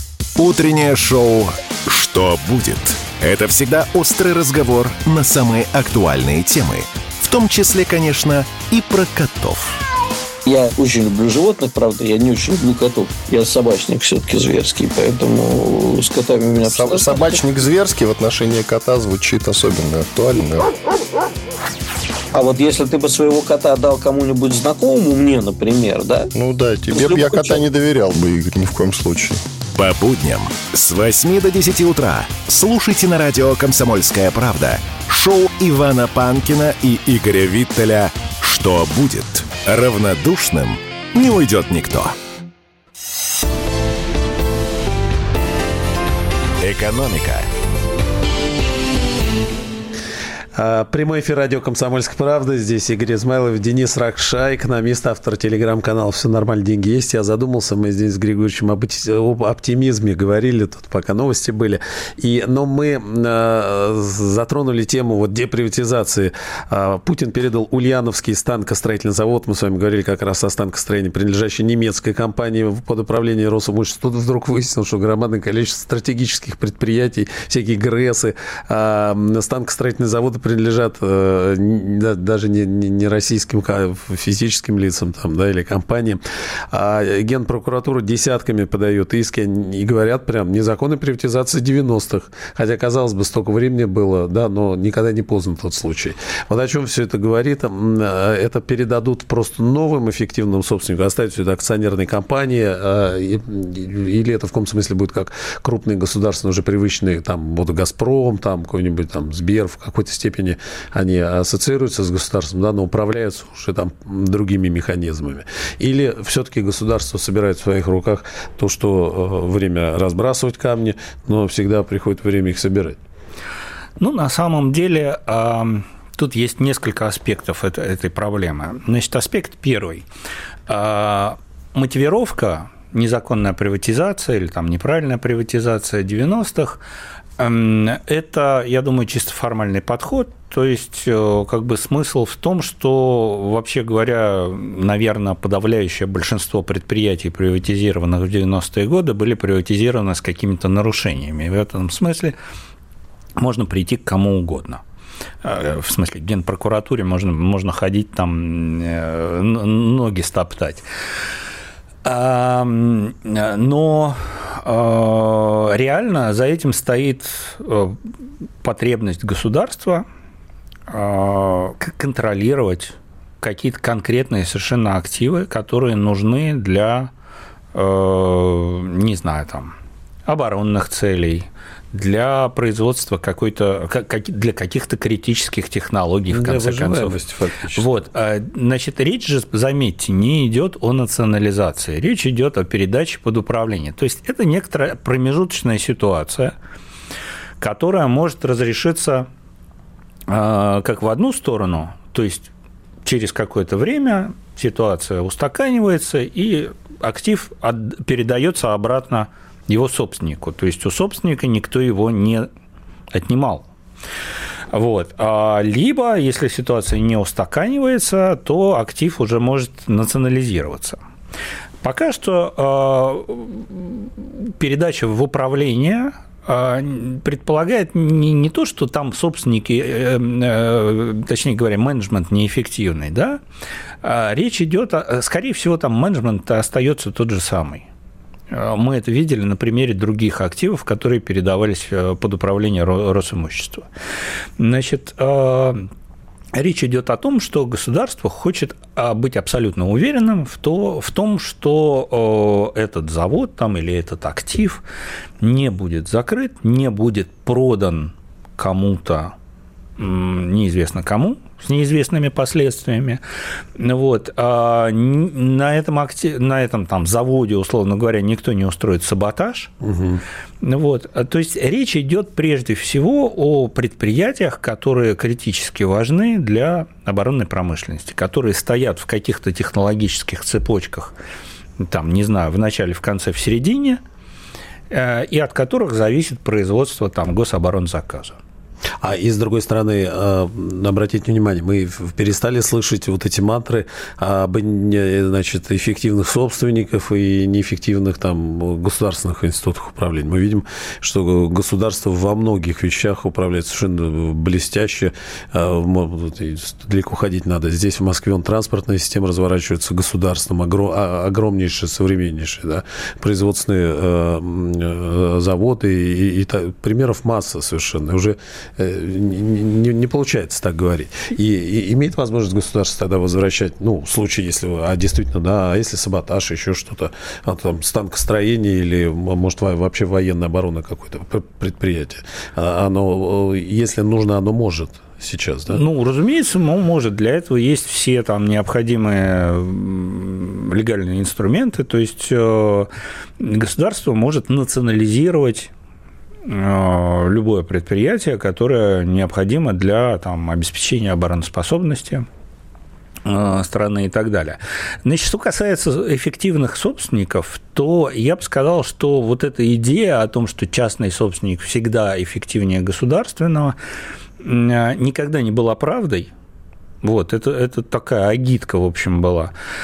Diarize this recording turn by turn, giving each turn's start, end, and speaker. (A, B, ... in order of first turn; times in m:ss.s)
0:00.4-0:09.8 A
0:10.4-0:17.4 B
0:16.6-0:20.7 C
0:22.3-0:26.3 B
0:26.3-0:29.4 C
0:26.9-0:27.6 B
0:29.7-0:42.1 A
0:46.6-0:47.5 A
0:50.5-2:03.0 D
2:04.0-2:10.0 E
2:10.7-2:16.8 E
2:17.4-2:32.4 E
2:33.4-2:34.8 E
2:35.4-2:40.8 E
2:42.0-2:48.0 E
2:48.6-2:50.0 E
2:50.9-2:57.1 E
2:57.7-2:59.7 E
3:00.2-3:07.2 E
3:06.3-3:07.8 D
3:07.7-3:16.5 E
3:17.6-3:19.3 E
3:20.3-3:22.5 E
3:23.0-3:32.5 E
3:33.1-3:33.7 E
3:34.7-3:41.0 E
3:41.8-3:53.4 E
3:54.0-3:57.8 E
3:58.5-4:03.9 E
4:04.6-4:05.9 E
4:06.5-4:14.8 E
4:15.4-4:19.3 E
4:20.0-4:23.2 E
4:23.8-4:29.7 E
4:29.8-4:30.2 D
4:30.6-4:41.1 E
4:41.8-4:44.0 E
4:44.9-4:48.4 E
4:49.0-5:35.8 D
5:35.7-5:45.7 E
5:46.4-5:52.2 E
5:53.2-6:03.8 E
6:04.4-6:06.3 E
6:07.0-6:09.5 E